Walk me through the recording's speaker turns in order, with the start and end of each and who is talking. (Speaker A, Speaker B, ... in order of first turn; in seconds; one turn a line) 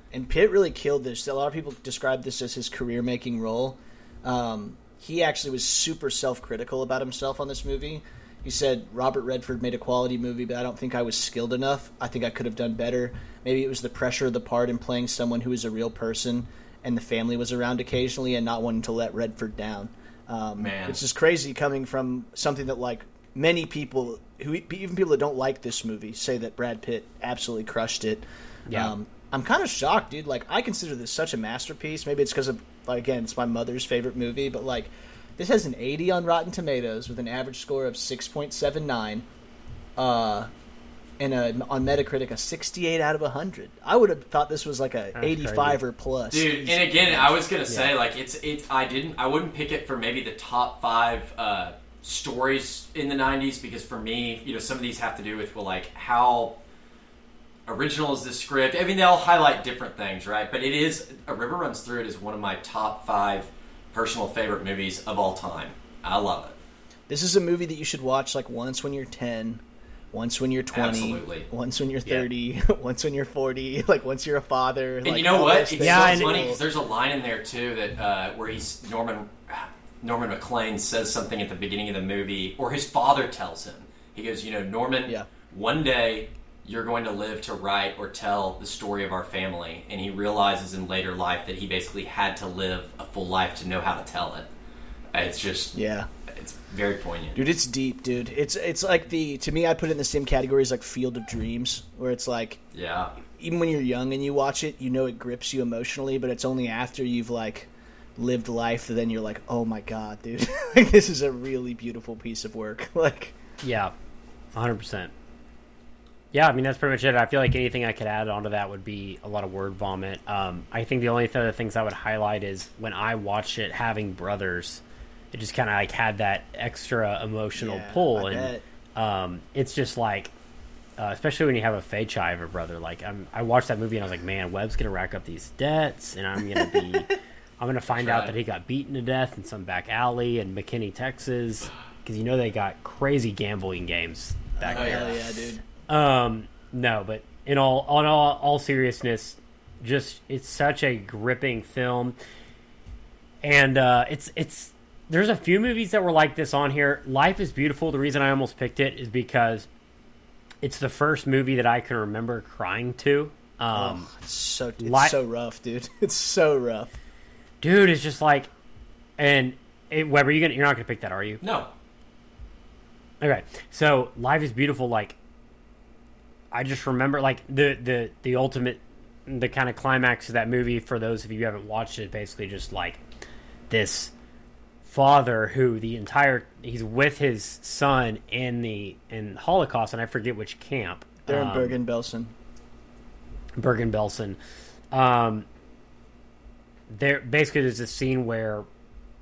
Speaker A: 0.1-39.3
Speaker B: 20.6-21.0
Speaker A: 40.0-40.5
Speaker A: 41.2-47.4
Speaker C: 45.2-45.8
Speaker B: 46.3-56.6
Speaker B: 57.7-66.5
Speaker A: 67.1-69.6
Speaker A: 70.1-76.6
Speaker B: 70.7-71.5
Speaker B: 75.0-94.5
Speaker C: 75.8-76.5
Speaker B: 95.1-95.8
Speaker A: 95.7-96.1
Speaker B: 96.3-97.4
Speaker A: 97.3-102.6
Speaker B: 102.7-103.1
Speaker A: 103.3-113.3
Speaker C: 113.6-113.9
Speaker C: 114.5-115.1
Speaker C: 116.3-130.3
Speaker A: 127.6-128.6
Speaker C: 131.0-145.2
Speaker B: 137.9-138.3
Speaker A: 144.6-145.6
Speaker B: 144.7-145.2
Speaker C: 145.8-152.2
Speaker C: 153.4-159.7
Speaker C: 160.6-164.1
Speaker A: 163.7-166.9
Speaker C: 164.8-165.2
Speaker C: 167.6-168.5
Speaker C: 169.2-171.4
Speaker B: 171.4-171.7
Speaker C: 173.2-175.2
Speaker C: 176.5-183.0
Speaker C: 183.7-184.1
Speaker C: 184.8-191.8
Speaker A: 191.3-192.3
Speaker C: 193.6-194.4
Speaker C: 194.9-195.5
Speaker C: 196.9-198.7